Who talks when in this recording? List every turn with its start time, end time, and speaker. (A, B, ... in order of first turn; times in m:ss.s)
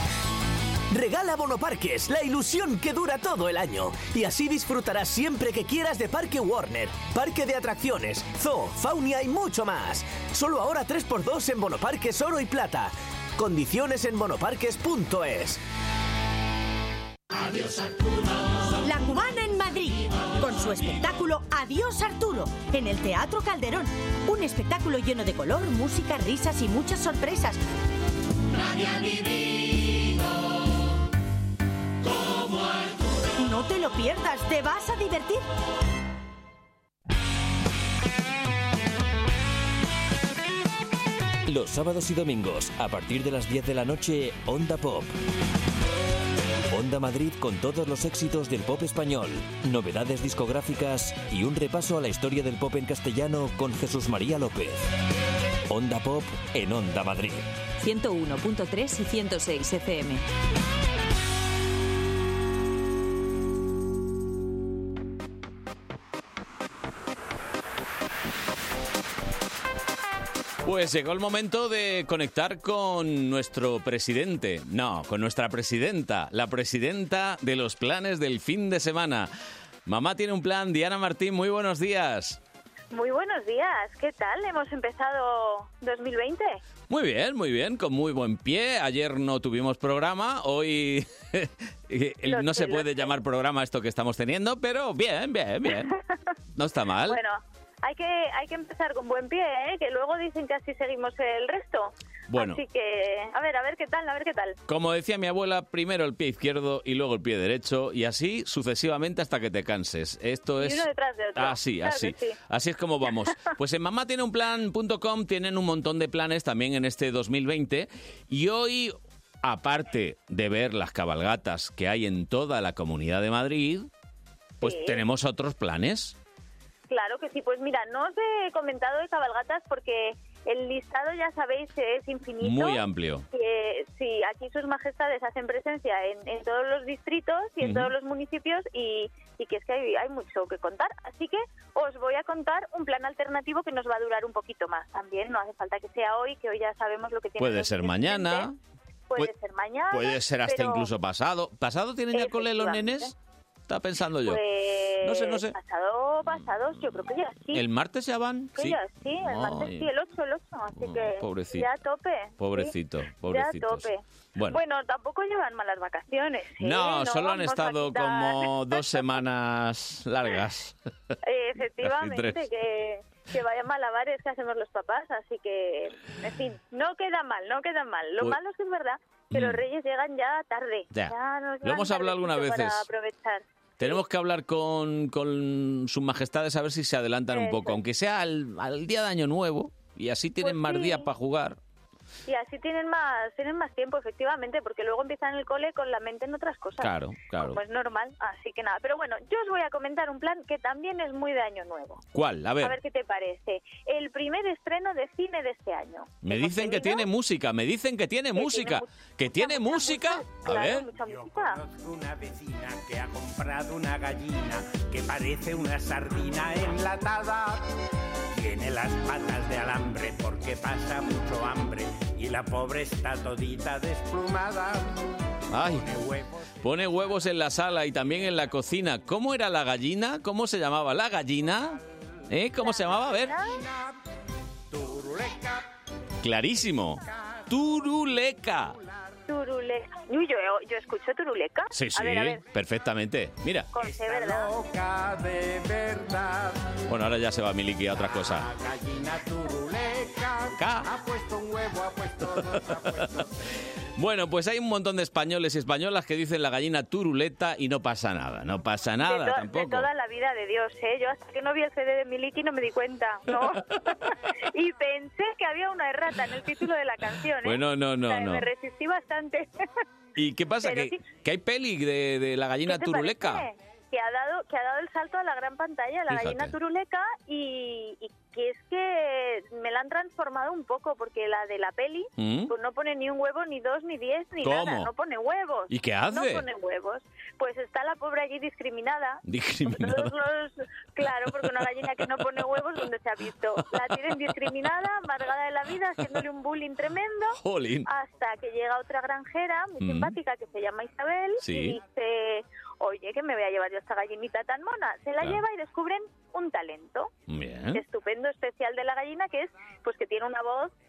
0:00.9-0:15.6 A
0:18.8-0:27.6 B
0:33.4-0:35.4 B
0:41.4-0:45.1 C
0:46.7-0:54.9 C
0:55.7-0:57.5 C
0:57.8-1:00.2 D
1:10.6-1:19.3 E
1:19.8-1:22.4 E
1:22.9-1:26.6 F
1:26.9-1:35.9 E
1:32.2-1:33.1 F
1:36.6-1:37.2 E
1:37.0-1:44.6 F
1:42.3-1:42.6 E
1:44.7-2:03.9 E
1:50.6-1:52.4 F
2:04.6-2:06.2 E
2:04.6-2:05.0 F
2:06.9-2:28.5 F
2:12.4-2:13.2 E
2:17.6-2:17.9 E
2:27.4-2:28.6 E
2:29.1-2:30.9 F
2:29.9-2:33.1 E
2:32.1-2:33.1 F
2:33.7-2:34.4 E
2:34.2-2:37.6 F
2:35.0-2:35.5 E
2:36.3-2:36.8 E
2:37.5-2:39.9 E
2:38.6-2:42.7 F
2:40.8-2:41.7 E
2:42.4-2:44.6 E
2:43.2-2:49.0 F
2:46.6-2:50.7 E
2:51.2-3:04.0 F
2:51.8-2:52.4 E
2:59.3-2:59.6 E
3:00.9-3:02.9 E
3:03.8-3:11.6 E
3:07.3-3:07.8 F
3:10.4-3:11.1 F
3:12.3-3:22.0 F
3:16.8-3:17.6 E
3:22.1-3:22.8 E
3:22.6-3:27.0 F
3:26.2-3:30.9 E
3:28.4-3:31.6 F
3:31.0-3:37.7 G
3:38.3-3:45.0 G
3:45.5-3:45.9 E
3:45.6-3:46.5 G
3:46.6-3:51.8 E
3:52.3-3:53.3 E
3:52.9-3:53.9 G
3:53.1-3:53.6 F
3:54.7-3:55.6 G
3:56.2-3:58.7 E
3:57.1-3:57.4 G
3:59.3-4:02.4 F
4:01.7-4:03.7 E
4:03.7-4:04.5 F
4:03.8-4:06.7 G
4:06.9-4:08.5 E
4:08.0-4:13.3 G
4:10.6-4:10.9 E
4:14.0-4:19.9 E
4:19.0-4:23.6 F
4:24.5-4:29.5 F
4:27.4-4:28.5 E
4:30.2-4:33.4 E
4:30.6-4:31.0 F
4:32.6-5:07.1 F
4:36.1-4:36.5 E
4:42.2-4:42.5 E
4:44.4-4:44.9 E
4:45.7-4:46.4 E
4:49.3-4:50.1 E
4:57.4-4:57.9 E
4:59.8-5:00.1 E
5:01.4-5:01.8 E
5:07.3-5:07.8 E
5:07.7-5:10.7 F